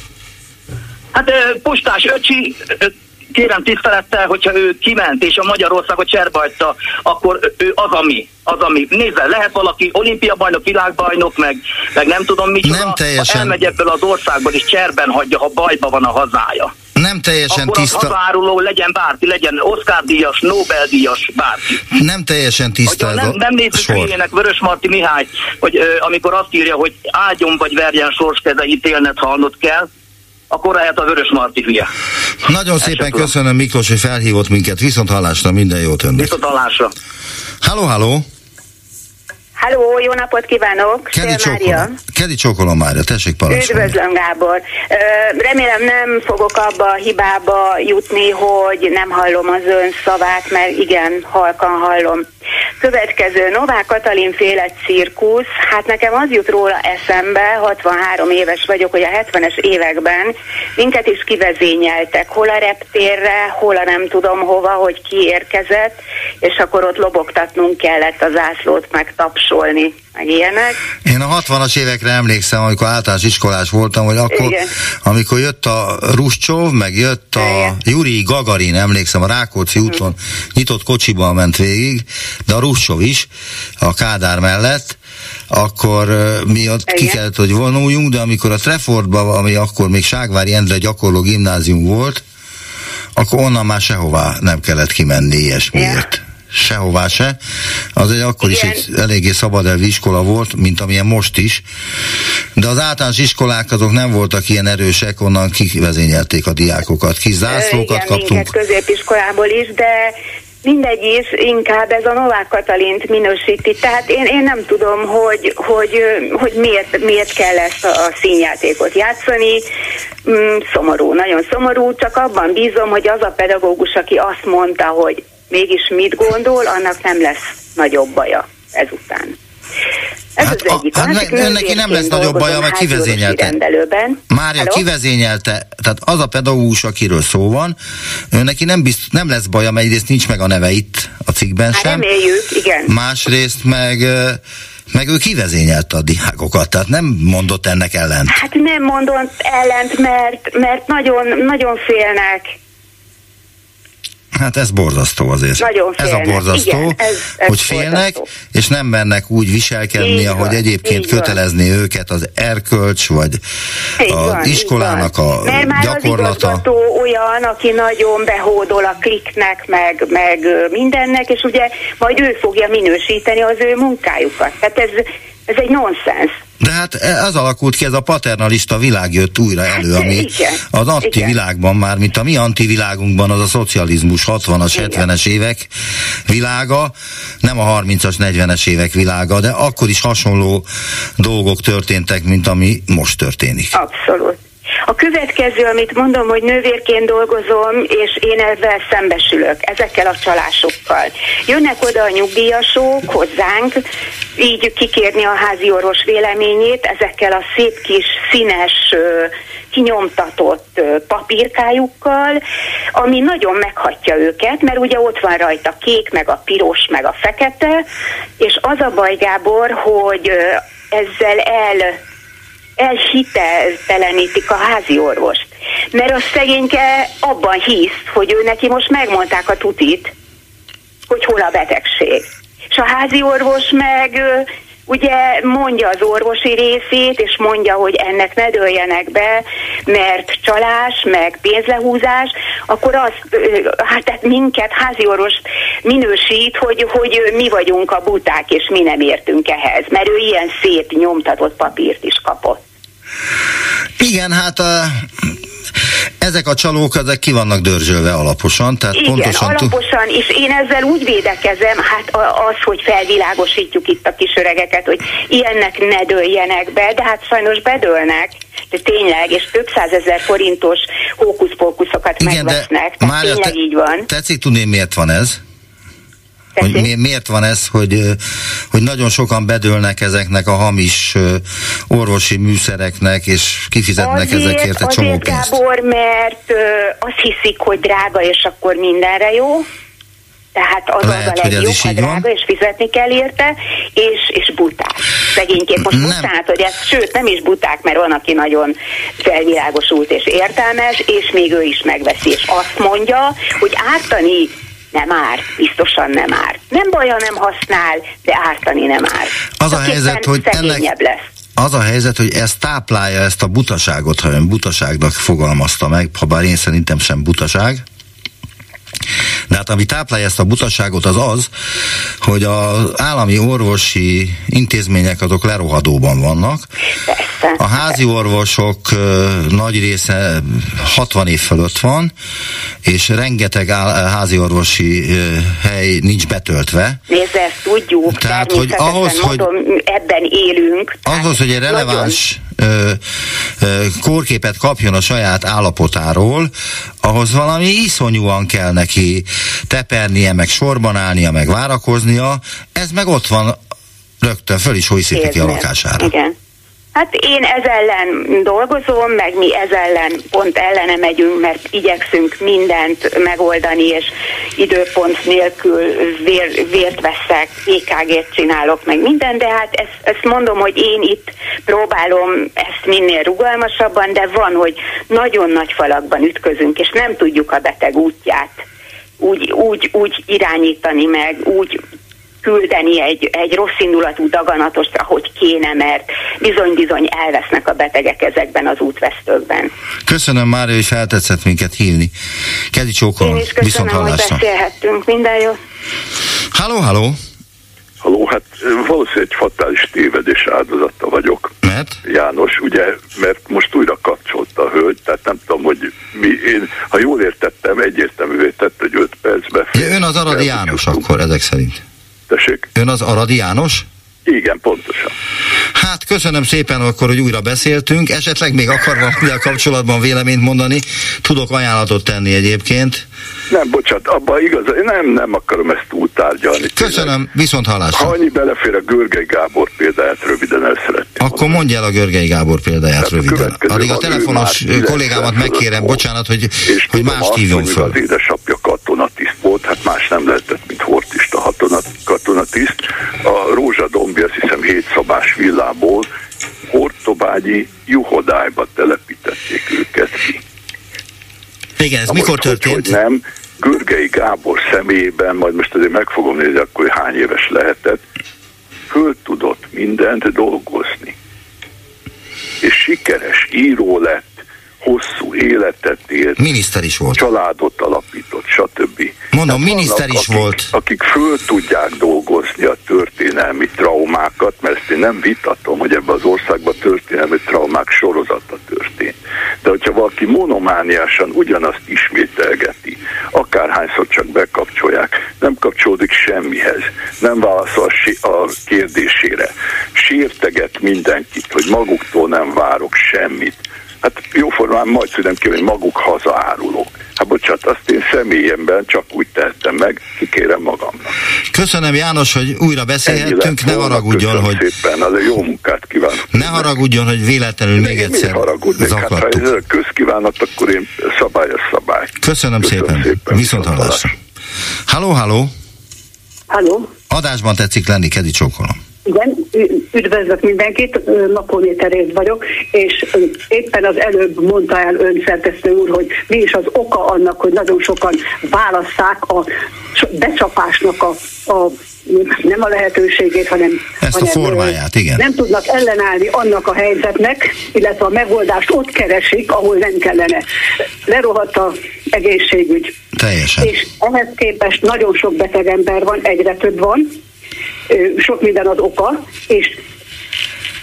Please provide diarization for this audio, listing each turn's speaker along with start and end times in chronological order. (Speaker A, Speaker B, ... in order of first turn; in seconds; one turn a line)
Speaker A: 1.1-16.7
Speaker B: 12.6-13.7
Speaker B: 16.9-18.1
Speaker A: 17.5-21.8
Speaker B: 21.9-24.1
Speaker A: 22.9-29.9
Speaker A: 30.5-31.9
Speaker B: 32.4-36.4
Speaker A: 32.8-33.3
Speaker A: 36.2-36.9
Speaker B: 37.6-38.2
Speaker C: 39.6-42.0
Speaker B: 41.1-44.0
Speaker C: 43.5-52.2
Speaker C: 52.8-70.8
Speaker B: 71.0-83.3
Speaker C: 74.3-74.7
Speaker C: 77.4-77.7
Speaker B: 83.8-85.0
Speaker B: 85.5-92.2
Speaker C: 86.9-87.2
Speaker B: 93.2-97.4
Speaker C: 95.7-96.0
Speaker B: 98.0-101.6
Speaker C: 98.4-98.8
Speaker B: 102.5-108.5
Speaker C: 107.5-119.6
Speaker C: 120.2-129.3
Speaker C: 130.4-134.8
Speaker B: 130.4-133.6
Speaker B: 134.3-137.8
Speaker B: 138.3-142.1
Speaker C: 141.7-142.9
Speaker B: 142.9-144.4
Speaker B: 144.9-148.4
Speaker C: 148.3-152.5
Speaker B: 154.3-163.4
Speaker C: 155.6-158.2
Speaker C: 160.0-161.4
Speaker C: 164.0-176.3
Speaker B: 164.1-166.6
Speaker B: 176.6-185.7
Speaker C: 179.7-181.3
Speaker C: 184.7-185.0
Speaker B: 186.3-190.7
Speaker B: 191.2-193.7
Speaker C: 193.7-203.8
Speaker C: 204.4-212.4
Speaker C: 212.9-217.8
Speaker C: 218.4-222.0
Speaker C: 222.8-230.1
Speaker C: 231.1-252.6
Speaker B: 254.0-255.0
Speaker B: 256.2-259.7
Speaker C: 258.9-274.1
Speaker B: 272.2-273.6
Speaker B: 274.1-275.4
Speaker C: 276.6-276.9
Speaker B: 276.6-285.5
Speaker C: 284.0-289.6
Speaker C: 290.5-311.2
Speaker B: 291.0-292.2
Speaker B: 295.9-296.3
Speaker B: 309.6-310.8
Speaker B: 311.6-317.8
Speaker B: 319.5-321.5
Speaker B: 322.2-326.7
Speaker C: 327.1-328.0
Speaker B: 327.6-332.1
Speaker B: 332.8-337.0
Speaker C: 337.1-342.1
Speaker B: 338.1-339.4
Speaker B: 341.0-343.0
Speaker B: 343.6-346.5
Speaker B: 347.0-353.6
Speaker B: 354.2-356.1
Speaker C: 355.1-356.3
Speaker C: 356.9-378.6
Speaker C: 379.2-381.8
Speaker C: 382.4-389.7
Speaker B: 390.1-392.1
Speaker B: 392.7-394.4
Speaker C: 393.2-395.6
Speaker B: 396.5-397.2
Speaker D: 398.0-401.5
Speaker B: 401.6-401.9
Speaker D: 402.0-411.0
Speaker B: 409.7-411.8
Speaker D: 412.3-412.7
Speaker B: 412.8-413.9
Speaker D: 414.2-415.1
Speaker B: 415.7-423.1
Speaker D: 423.5-427.2
Speaker B: 426.8-428.1
Speaker D: 427.9-431.6
Speaker B: 431.2-437.9
Speaker D: 433.0-436.0
Speaker D: 436.6-446.1
Speaker D: 446.7-450.4
Speaker B: 451.8-452.9
Speaker D: 452.1-458.0
Speaker D: 458.9-461.1
Speaker D: 462.6-466.4
Speaker B: 466.4-467.2
Speaker D: 467.1-501.1
Speaker B: 469.3-470.7
Speaker B: 501.5-504.6
Speaker D: 503.0-506.8
Speaker B: 506.3-509.4
Speaker D: 507.8-514.1
Speaker B: 512.2-514.1
Speaker B: 514.9-515.5
Speaker E: 516.5-516.9
Speaker B: 517.1-518.8
Speaker E: 519.0-540.4
Speaker B: 534.0-535.2
Speaker E: 541.0-542.9
Speaker B: 543.1-543.7
Speaker E: 543.6-547.1
Speaker E: 547.9-549.8